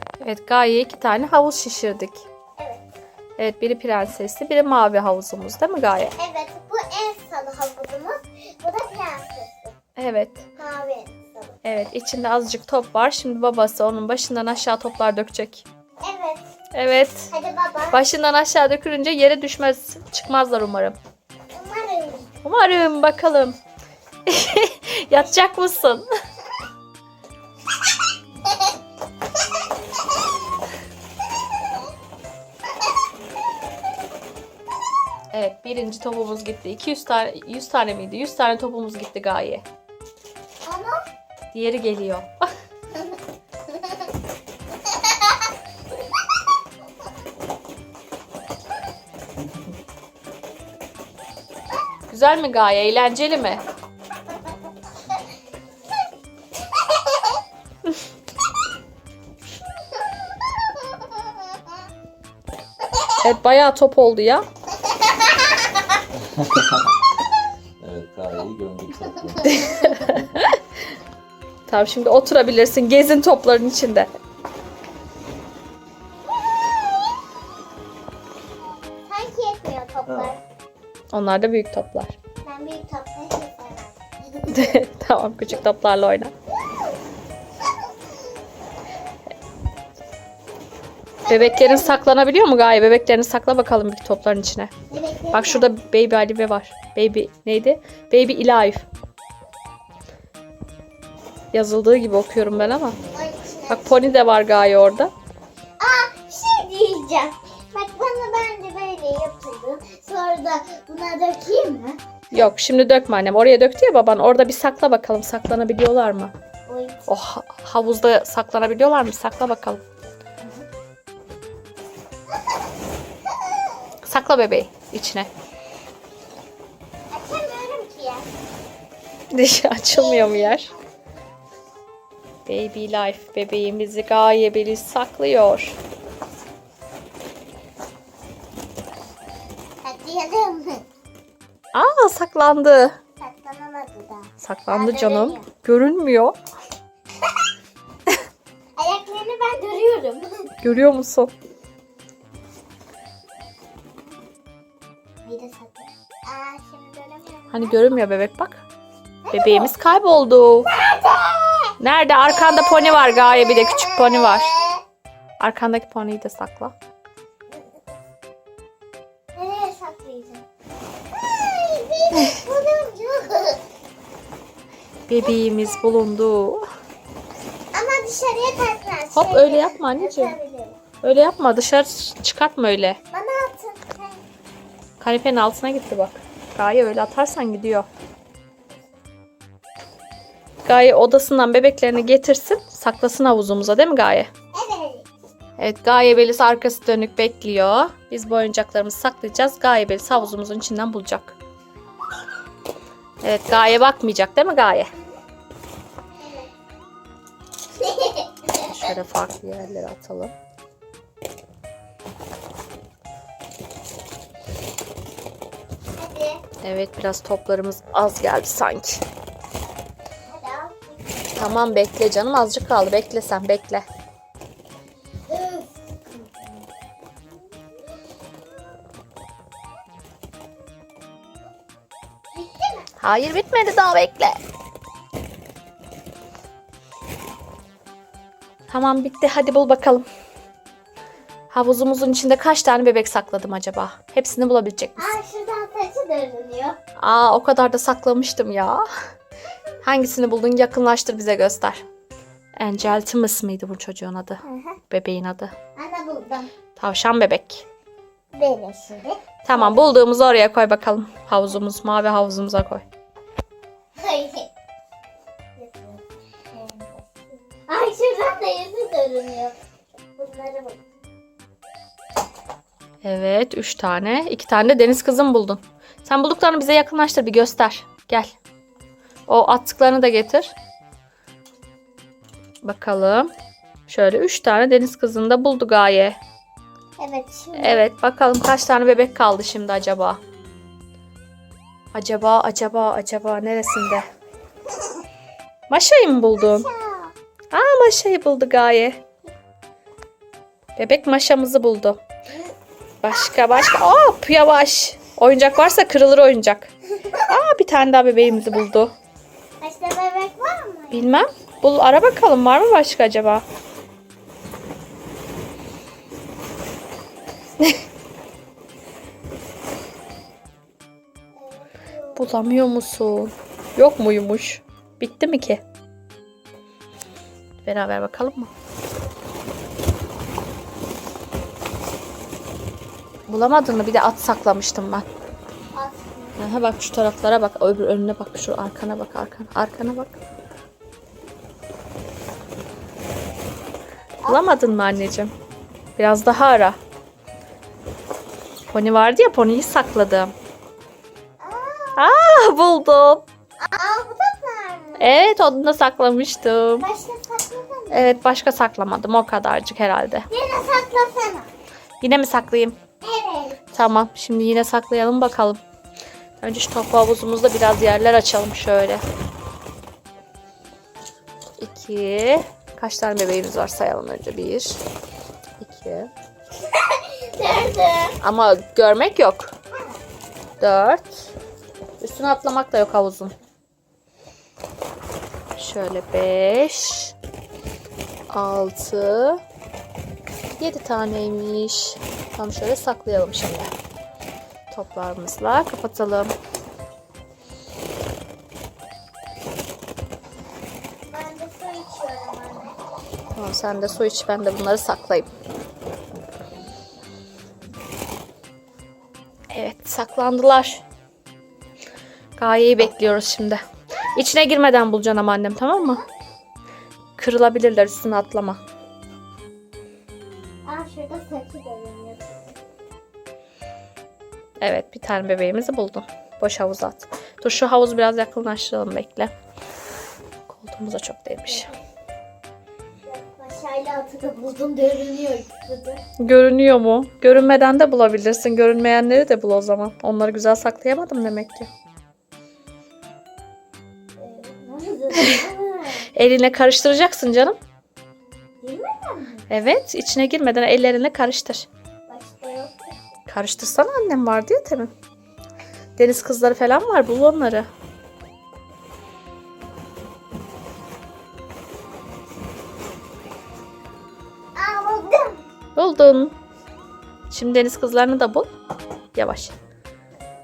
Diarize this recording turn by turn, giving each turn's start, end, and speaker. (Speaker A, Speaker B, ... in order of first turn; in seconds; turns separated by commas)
Speaker A: 0.2-2.2, Speaker B: 2.6-2.8, Speaker A: 3.4-6.1, Speaker B: 6.2-9.8, Speaker A: 9.9-10.4, Speaker B: 10.6-11.6, Speaker A: 11.6-15.6, Speaker B: 16.0-16.4, Speaker A: 16.7-17.3, Speaker B: 17.3-18.0, Speaker A: 17.9-21.0, Speaker B: 21.5-22.3, Speaker A: 22.4-23.6, Speaker A: 24.3-26.1, Speaker A: 35.3-39.6, Speaker B: 40.6-41.0, Speaker A: 41.5-42.4, Speaker B: 44.9-45.3, Speaker A: 52.1-53.6, Speaker A: 63.2-64.4, Speaker C: 66.3-66.8, Speaker C: 67.8-69.6, Speaker A: 69.6-70.6, Speaker A: 71.7-74.1, Speaker B: 79.0-80.4, Speaker A: 81.1-82.1, Speaker B: 82.4-84.7, Speaker A: 84.5-86.3, Speaker B: 91.3-92.0, Speaker A: 91.3-94.7, Speaker B: 94.9-95.7, Speaker A: 95.3-98.8, Speaker A: 101.5-103.0, Speaker B: 103.1-104.1, Speaker A: 103.7-105.1, Speaker B: 105.8-112.0, Speaker A: 112.3-116.3, Speaker B: 116.7-117.1, Speaker A: 117.1-119.8, Speaker A: 124.0-125.3, Speaker B: 127.1-128.3, Speaker A: 129.3-130.7, Speaker B: 129.9-130.7, Speaker A: 132.4-135.8, Speaker B: 139.8-140.8, Speaker A: 141.7-142.9, Speaker B: 143.2-145.4, Speaker A: 144.4-146.3, Speaker B: 148.8-150.5, Speaker A: 150.6-151.3, Speaker B: 155.2-157.9, Speaker A: 157.5-158.6, Speaker B: 159.2-159.7, Speaker A: 159.3-160.7, Speaker B: 160.7-161.7, Speaker A: 161.8-164.5, Speaker B: 162.4-164.8, Speaker A: 165.4-166.7, Speaker B: 169.3-170.4, Speaker B: 171.4-173.6, Speaker A: 175.1-176.6, Speaker B: 175.2-175.9, Speaker B: 177.7-180.8, Speaker A: 179.1-180.3, Speaker A: 181.0-183.0, Speaker B: 183.1-184.2, Speaker A: 185.0-187.9, Speaker A: 190.6-194.3, Speaker B: 194.5-195.1, Speaker A: 195.6-201.3, Speaker A: 203.2-204.9, Speaker B: 206.2-206.5, Speaker B: 207.8-208.8, Speaker A: 208.6-210.3, Speaker B: 216.0-216.4, Speaker A: 216.6-219.0, Speaker B: 220.3-221.8, Speaker A: 221.3-223.8, Speaker B: 225.3-226.6, Speaker B: 232.3-232.9, Speaker A: 233.0-234.4, Speaker A: 238.7-240.0, Speaker A: 241.5-245.1, Speaker B: 245.0-246.8, Speaker A: 247.0-248.8, Speaker A: 249.8-251.8, Speaker A: 252.6-255.5, Speaker B: 254.4-254.8, Speaker B: 255.8-256.5, Speaker A: 256.8-257.6, Speaker B: 258.3-259.9, Speaker A: 259.4-262.8, Speaker B: 263.9-264.5, Speaker B: 265.6-269.6, Speaker B: 270.2-270.8, Speaker A: 273.0-278.3, Speaker A: 279.3-280.5, Speaker A: 282.6-283.3, Speaker A: 283.9-286.2, Speaker B: 287.0-287.8, Speaker A: 287.6-290.2, Speaker A: 291.9-294.0, Speaker A: 295.7-296.7, Speaker B: 296.3-297.1, Speaker A: 297.5-299.0, Speaker A: 300.8-302.0, Speaker A: 303.0-306.7, Speaker A: 307.3-308.9, Speaker B: 309.6-311.1, Speaker A: 310.9-313.4, Speaker B: 321.4-322.3, Speaker A: 322.1-325.6, Speaker A: 327.6-328.5, Speaker A: 333.3-335.1, Speaker B: 335.7-336.4, Speaker A: 336.4-340.2, Speaker A: 344.3-345.3, Speaker A: 346.0-346.8, Speaker A: 348.7-350.3, Speaker B: 351.4-352.1, Speaker A: 351.9-353.2, Speaker B: 353.6-355.2, Speaker A: 355.0-356.9, Speaker B: 356.8-358.1, Speaker A: 357.9-360.3, Speaker B: 360.3-361.5, Speaker A: 362.0-362.8, Speaker B: 363.0-363.7, Speaker A: 363.7-365.6, Speaker A: 366.4-369.0, Speaker A: 371.6-374.8, Speaker A: 375.6-376.1, Speaker B: 376.8-378.2, Speaker A: 378.2-379.5, Speaker A: 380.6-381.3, Speaker A: 382.0-383.3, Speaker A: 385.6-387.1, Speaker A: 388.3-389.4, Speaker A: 390.6-393.7, Speaker A: 394.7-396.3, Speaker B: 401.1-402.8, Speaker A: 403.3-405.3, Speaker A: 409.5-410.8, Speaker A: 412.4-413.6, Speaker A: 414.1-416.0, Speaker A: 417.2-418.6, Speaker B: 420.6-422.4, Speaker A: 424.6-429.3, Speaker A: 430.5-431.7, Speaker B: 431.5-431.8, Speaker B: 433.1-436.0, Speaker A: 436.2-441.7, Speaker B: 444.2-446.1, Speaker A: 446.1-447.6, Speaker B: 448.6-449.5, Speaker A: 449.5-451.7, Speaker B: 452.1-452.9, Speaker A: 453.3-454.9, Speaker A: 456.0-457.7, Speaker B: 464.6-465.4, Speaker A: 465.8-466.3, Speaker A: 467.3-468.5, Speaker A: 469.1-469.5